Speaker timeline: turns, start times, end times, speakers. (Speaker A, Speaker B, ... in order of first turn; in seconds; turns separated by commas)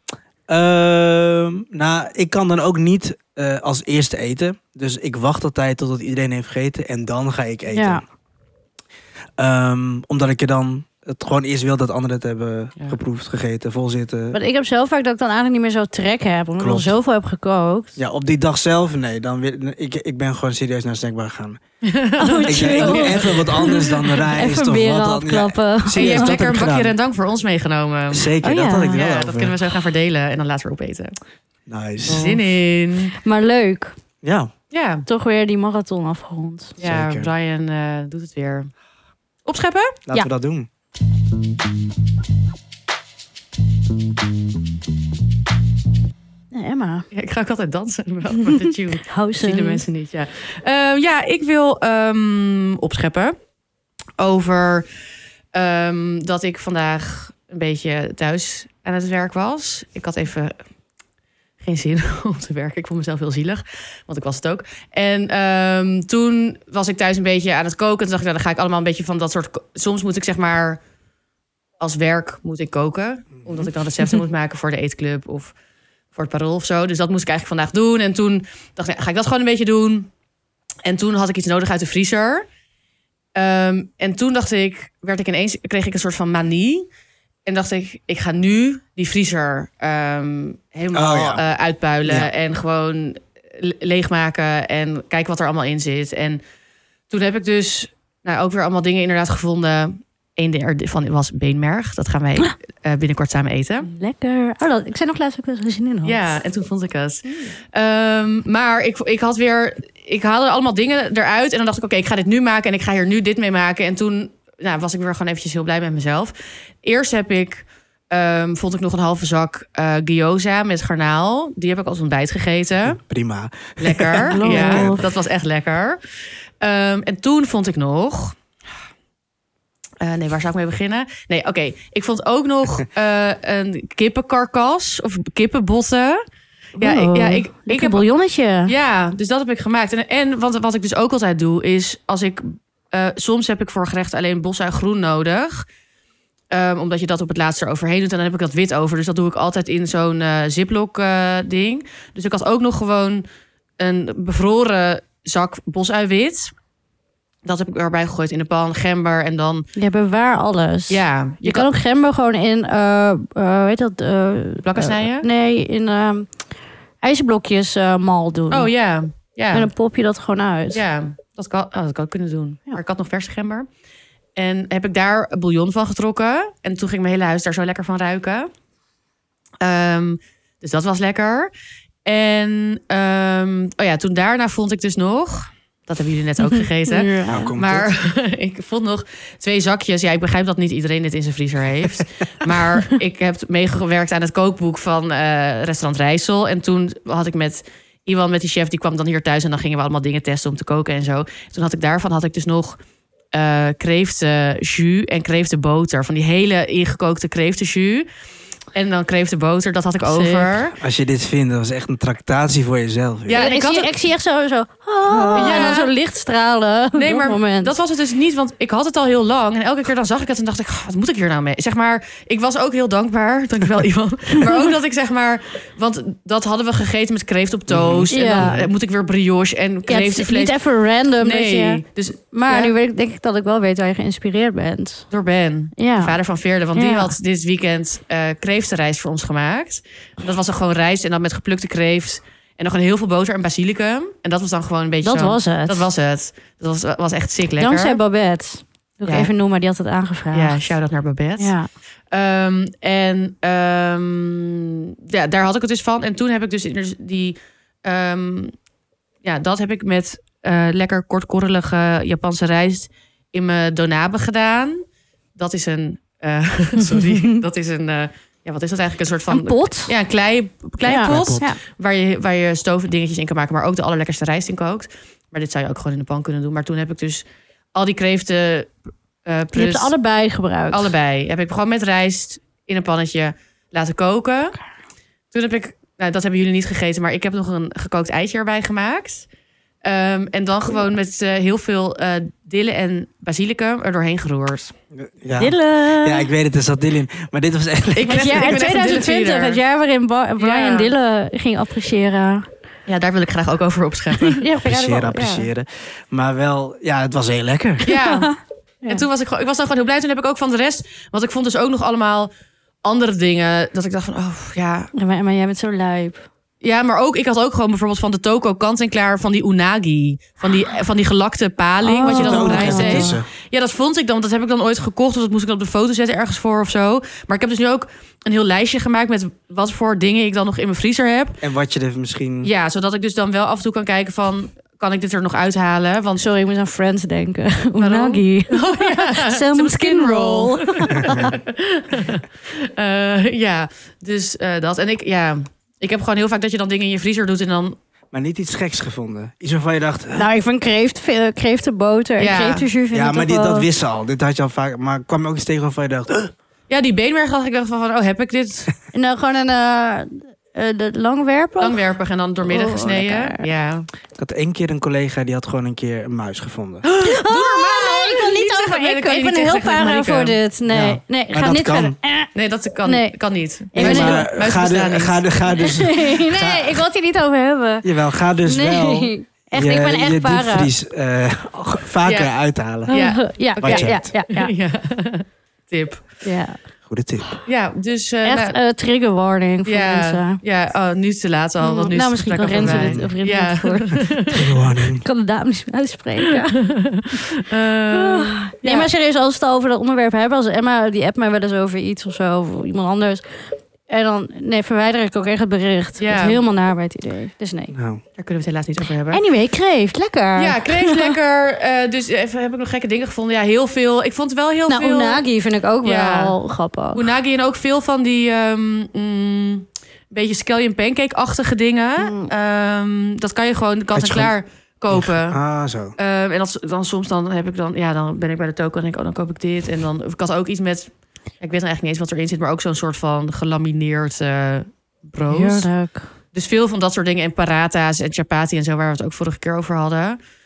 Speaker A: 0.5-8.0, Speaker B: 7.7-8.0, Speaker A: 9.4-14.4, Speaker B: 14.3-17.9, Speaker A: 16.6-16.9, Speaker A: 17.9-21.6, Speaker C: 21.8-23.9, Speaker B: 22.2-26.5, Speaker A: 22.5-26.9, Speaker C: 25.9-28.3, Speaker A: 28.1-29.6, Speaker B: 28.4-29.0, Speaker C: 28.9-31.1, Speaker A: 31.7-32.4, Speaker C: 32.1-33.1, Speaker B: 32.1-32.4, Speaker B: 33.1-34.0, Speaker A: 34.2-34.5, Speaker C: 34.7-35.0, Speaker B: 35.1-36.8, Speaker C: 36.8-38.7, Speaker A: 36.8-37.3, Speaker C: 39.5-40.0, Speaker A: 40.1-40.7, Speaker B: 46.5-47.1, Speaker C: 47.1-53.4, Speaker B: 48.4-49.8, Speaker C: 54.2-54.9, Speaker C: 55.5-60.6, Speaker C: 61.6-70.8, Speaker C: 71.8-75.5, Speaker C: 76.1-80.1, Speaker C: 80.8-82.5, Speaker C: 83.3-86.9, Speaker C: 87.5-96.4, Speaker A: 90.9-91.4, Speaker C: 97.1-103.9, Speaker B: 103.9-106.4, Speaker C: 106.0-123.0, Speaker B: 107.2-107.5, Speaker A: 122.8-125.0, Speaker C: 123.8-126.0, Speaker B: 124.3-125.0, Speaker C: 126.6-128.4, Speaker C: 130.0-136.2, Speaker C: 136.8-138.0, Speaker B: 136.8-138.7, Speaker C: 138.7-145.7, Speaker C: 146.5-153.3, Speaker C: 153.8-156.5, Speaker C: 157.4-159.7, Speaker B: 159.7-166.3, Speaker C: 160.9-161.7, Speaker C: 164.6-165.3, Speaker B: 167.0-168.7, Speaker C: 168.5-169.7, Speaker B: 169.5-170.8, Speaker C: 170.7-173.7, Speaker C: 174.3-178.5, Speaker C: 179.6-181.5, Speaker C: 182.0-202.8, Speaker B: 186.8-187.5, Speaker A: 187.2-187.9, Speaker C: 203.3-208.1, Speaker C: 208.7-210.8, Speaker B: 210.1-210.6, Speaker A: 210.8-213.4, Speaker C: 213.3-213.9, Speaker B: 213.3-217.7, Speaker A: 215.2-215.5, Speaker C: 215.3-215.9, Speaker C: 216.9-230.6, Speaker A: 227.7-228.7, Speaker B: 228.1-228.6, Speaker B: 229.9-235.1, Speaker C: 231.2-232.7, Speaker C: 235.1-248.0, Speaker B: 235.8-236.2, Speaker B: 236.8-237.1, Speaker B: 245.0-245.9, Speaker B: 247.6-250.8, Speaker C: 249.0-249.3, Speaker C: 250.3-251.5, Speaker B: 251.4-251.7, Speaker C: 252.1-258.5, Speaker C: 259.2-264.8, Speaker C: 265.3-279.9, Speaker B: 266.9-267.4, Speaker B: 269.3-269.9, Speaker B: 270.8-271.6, Speaker A: 271.0-271.5, Speaker B: 279.5-280.9, Speaker C: 280.7-284.6, Speaker C: 285.3-289.3, Speaker C: 289.8-294.7, Speaker A: 295.0-298.6, Speaker B: 295.4-296.3, Speaker C: 297.9-299.6, Speaker B: 298.1-302.5, Speaker C: 300.4-300.9, Speaker C: 302.9-304.4, Speaker B: 304.2-305.5, Speaker A: 304.6-307.9, Speaker C: 307.8-308.3, Speaker B: 307.9-309.0, Speaker C: 308.9-312.3, Speaker C: 312.8-314.9, Speaker B: 314.9-316.2, Speaker C: 316.6-331.4, Speaker B: 321.8-323.2, Speaker A: 322.1-323.3, Speaker A: 331.4-332.5, Speaker C: 332.4-336.2, Speaker B: 336.2-341.3, Speaker C: 337.8-347.8, Speaker A: 340.9-341.4, Speaker A: 348.1-350.3, Speaker B: 350.1-353.7, Speaker C: 352.2-352.7, Speaker A: 352.9-356.3, Speaker C: 356.7-358.7, Speaker B: 358.9-361.8, Speaker C: 361.6-363.9, Speaker B: 362.4-363.4, Speaker A: 364.1-366.8, Speaker C: 366.9-370.4, Speaker B: 367.0-372.3, Speaker A: 370.7-371.9, Speaker C: 372.3-375.2, Speaker B: 372.8-373.2, Speaker B: 373.7-374.3, Speaker A: 373.8-376.8, Speaker B: 375.5-377.9, Speaker A: 377.8-384.1, Speaker B: 378.4-380.7, Speaker C: 382.0-382.3, Speaker C: 382.9-386.2, Speaker B: 382.9-384.5, Speaker B: 386.2-386.6, Speaker A: 386.9-387.3, Speaker C: 387.4-388.6, Speaker B: 388.2-390.4, Speaker C: 389.6-394.3, Speaker B: 391.6-394.4, Speaker A: 392.5-393.1, Speaker A: 394.3-395.0, Speaker B: 394.9-397.2, Speaker C: 396.8-398.9, Speaker B: 397.9-403.2, Speaker B: 403.9-407.7, Speaker C: 406.0-406.4, Speaker A: 407.7-408.0, Speaker C: 408.2-409.2, Speaker B: 409.1-411.1, Speaker C: 410.4-415.2, Speaker B: 414.7-417.1, Speaker C: 415.8-416.3, Speaker C: 416.9-425.4, Speaker B: 422.0-422.3, Speaker A: 423.9-424.3, Speaker A: 424.9-425.9, Speaker C: 426.0-435.7, Speaker B: 435.3-436.1, Speaker C: 436.3-440.2